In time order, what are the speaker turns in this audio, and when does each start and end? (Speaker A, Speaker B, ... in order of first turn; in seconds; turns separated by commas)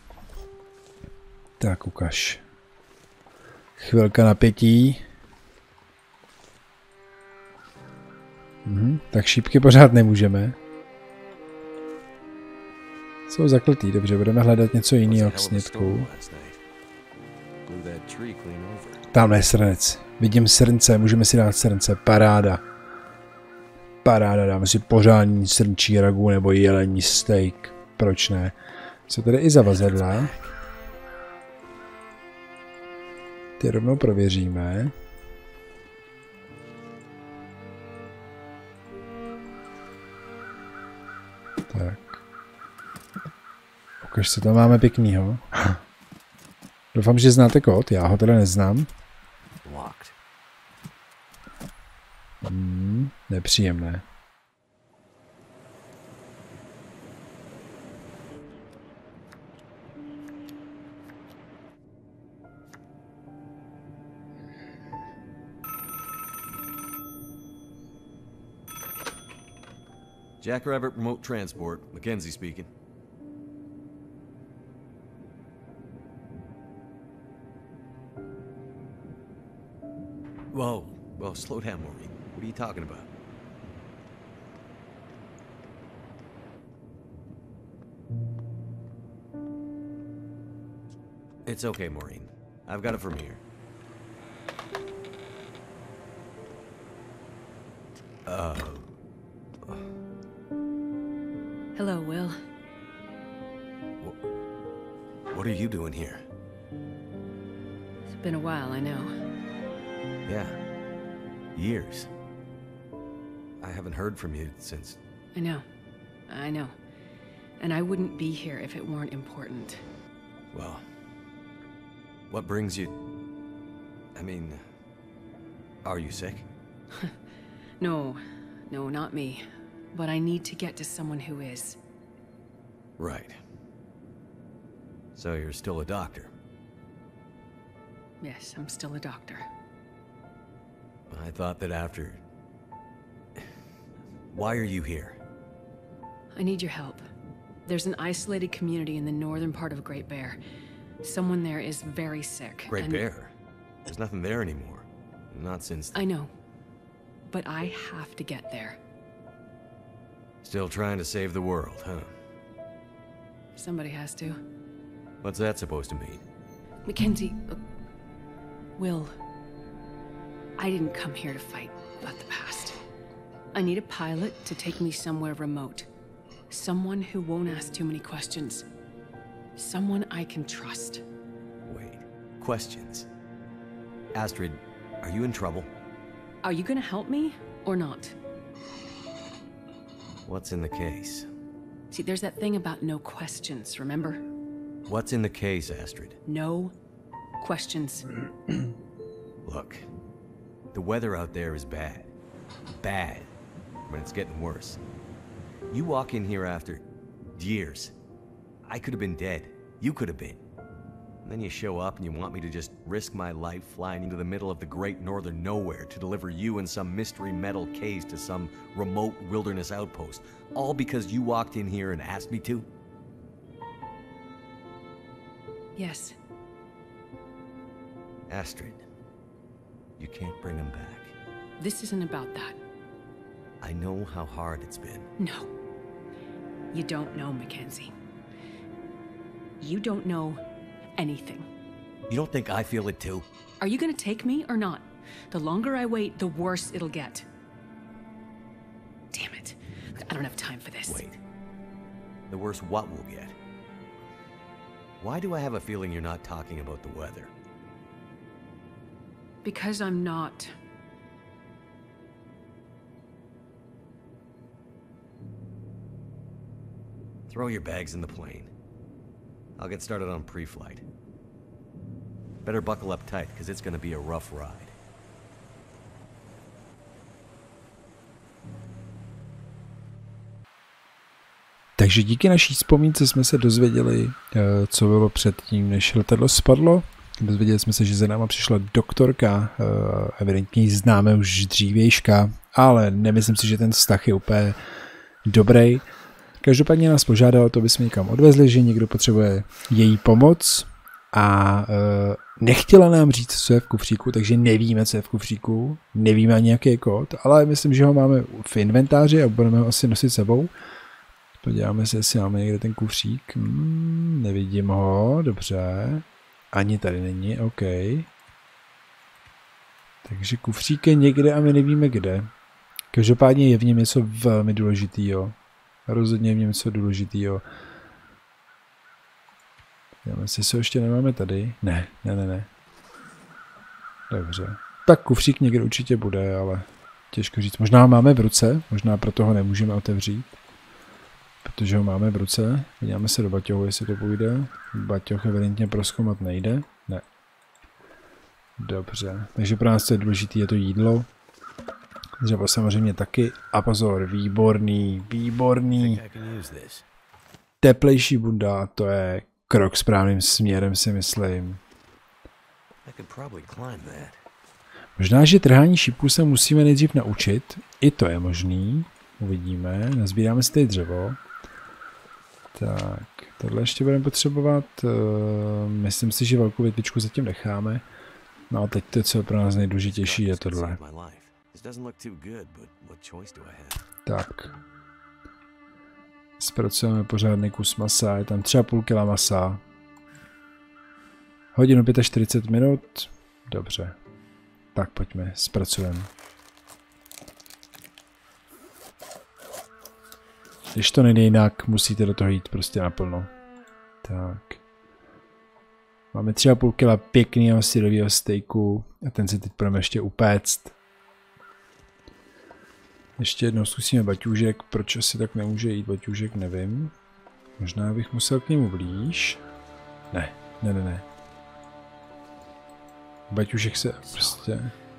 Speaker A: 1.6-2.4, Speaker A: 3.8-5.0, Speaker A: 8.7-10.6, Speaker A: 13.3-16.1, Speaker B: 15.0-16.6, Speaker B: 17.6-19.1, Speaker A: 19.1-22.6, Speaker A: 24.0-30.3, Speaker B: 29.6-30.5, Speaker A: 33.6-34.9, Speaker A: 41.7-42.2, Speaker A: 44.0-45.8, Speaker A: 46.9-48.9, Speaker B: 49.6-50.1, Speaker A: 52.4-54.0, Speaker B: 70.4-72.7, Speaker B: 80.5-83.1, Speaker B: 91.5-93.4, Speaker B: 98.2-98.8, Speaker C: 101.8-102.4, Speaker B: 105.3-106.2, Speaker C: 108.1-109.1, Speaker B: 110.2-110.6, Speaker B: 111.5-112.1, Speaker B: 113.6-115.0, Speaker C: 115.3-115.6, Speaker C: 116.3-116.7, Speaker C: 117.6-119.8, Speaker B: 120.5-120.8, Speaker B: 122.3-122.9, Speaker B: 124.1-124.6, Speaker B: 125.8-126.4, Speaker C: 127.8-131.8, Speaker B: 133.0-133.4, Speaker B: 135.1-136.3, Speaker C: 138.2-139.4, Speaker B: 141.1-142.2, Speaker B: 144.3-145.2, Speaker C: 146.3-147.0, Speaker C: 147.6-150.4, Speaker C: 151.0-153.1, Speaker B: 152.7-153.3, Speaker B: 153.8-156.0, Speaker C: 155.9-156.3, Speaker C: 157.2-158.8, Speaker B: 160.4-162.1, Speaker C: 163.6-164.4, Speaker B: 165.2-166.2, Speaker C: 166.8-167.6, Speaker C: 168.8-169.1, Speaker C: 170.6-172.8, Speaker C: 173.5-175.9, Speaker C: 176.5-178.7, Speaker C: 179.6-181.0, Speaker B: 181.7-183.1, Speaker B: 184.1-185.7, Speaker C: 186.4-188.1, Speaker B: 190.2-191.3, Speaker C: 191.9-194.2, Speaker B: 194.8-196.2, Speaker C: 196.2-196.7, Speaker C: 197.4-198.1, Speaker B: 199.4-199.8, Speaker B: 200.7-202.1, Speaker B: 202.8-203.3, Speaker B: 203.9-204.8, Speaker B: 205.7-206.8, Speaker B: 207.3-207.9, Speaker B: 208.7-210.4, Speaker B: 211.2-222.7, Speaker C: 225.8-226.2, Speaker B: 228.3-228.8, Speaker B: 230.0-231.1, Speaker C: 231.6-232.6, Speaker B: 233.6-235.1, Speaker C: 235.2-235.5, Speaker C: 236.7-237.9, Speaker C: 239.6-240.4, Speaker C: 241.0-241.4, Speaker B: 242.1-243.2, Speaker C: 243.6-247.2, Speaker C: 249.1-251.0, Speaker B: 250.9-251.2, Speaker B: 252.3-253.3, Speaker B: 255.0-257.3, Speaker C: 259.4-260.5, Speaker B: 267.3-268.5, Speaker B: 269.6-270.8, Speaker B: 272.4-274.7, Speaker A: 281.8-294.6, Speaker A: 295.2-295.9, Speaker A: 296.4-310.5, Speaker A: 311.4-318.1, Speaker A: 320.0-322.3, Speaker A: 322.9-327.4, Speaker A: 330.0-332.5, Speaker A: 334.1-340.3, Speaker A: 341.4-347.0, Speaker A: 348.6-351.1, Speaker A: 352.2-356.0, Speaker B: 355.8-356.9, Speaker A: 357.6-361.6, Speaker B: 362.8-364.2, Speaker A: 365.0-371.2, Speaker A: 372.5-377.8, Speaker A: 378.5-380.8, Speaker B: 379.7-383.8, Speaker A: 384.1-384.5, Speaker A: 386.4-389.6, Speaker A: 391.5-394.0, Speaker A: 394.7-396.1, Speaker A: 400.7-403.3, Speaker A: 404.0-404.6, Speaker A: 406.1-410.7, Speaker A: 413.2-416.9, Speaker A: 417.6-419.4, Speaker A: 420.1-421.0, Speaker A: 423.3-424.7, Speaker B: 424.1-424.4